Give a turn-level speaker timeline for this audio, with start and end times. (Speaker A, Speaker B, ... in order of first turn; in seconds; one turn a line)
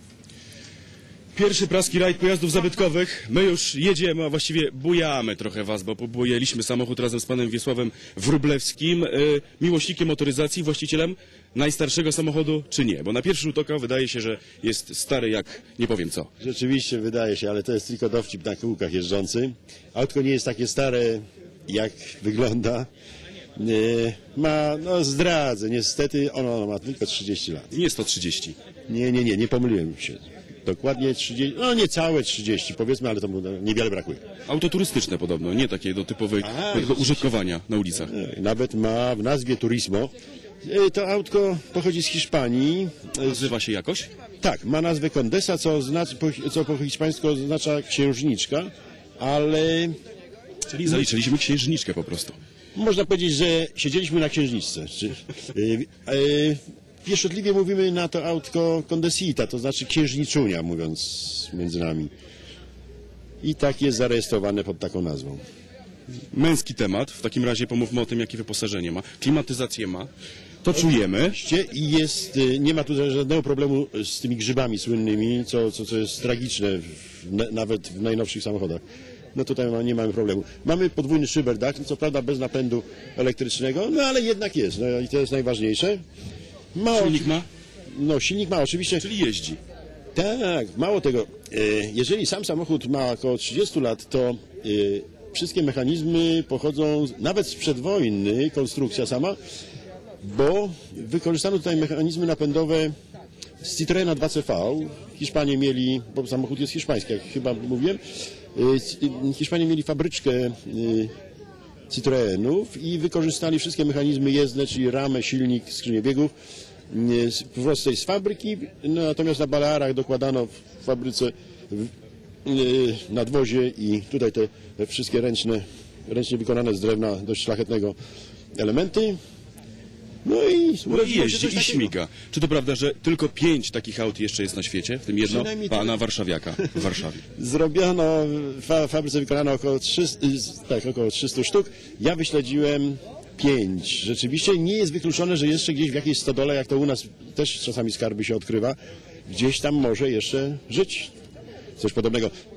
Speaker A: 1.3-16.3
Speaker B: 16.4-22.9
Speaker B: 23.6-27.7
Speaker A: 27.7-28.6
Speaker B: 28.9-34.2
Speaker A: 34.5-38.1
Speaker B: 36.4-37.3
Speaker B: 38.0-40.1
Speaker B: 40.6-43.5
Speaker A: 43.2-44.1
Speaker B: 44.4-50.0
Speaker A: 50.7-52.4
Speaker B: 52.8-62.1
Speaker B: 63.4-65.4
Speaker A: 66.3-70.1
Speaker A: 70.6-71.4
Speaker B: 71.3-78.8
Speaker B: 79.3-86.0
Speaker B: 86.8-87.3
Speaker A: 86.9-87.5
Speaker B: 87.9-89.1
Speaker A: 89.0-89.6
Speaker B: 90.2-99.4
Speaker B: 100.2-102.9
Speaker B: 103.6-108.0
Speaker B: 108.5-111.1
Speaker B: 111.9-116.3
Speaker B: 116.9-121.9
Speaker B: 122.5-128.0
Speaker B: 128.6-129.2
Speaker B: 130.2-131.9
Speaker A: 130.9-137.2
Speaker B: 135.2-136.0
Speaker B: 137.3-151.1
Speaker B: 151.8-152.3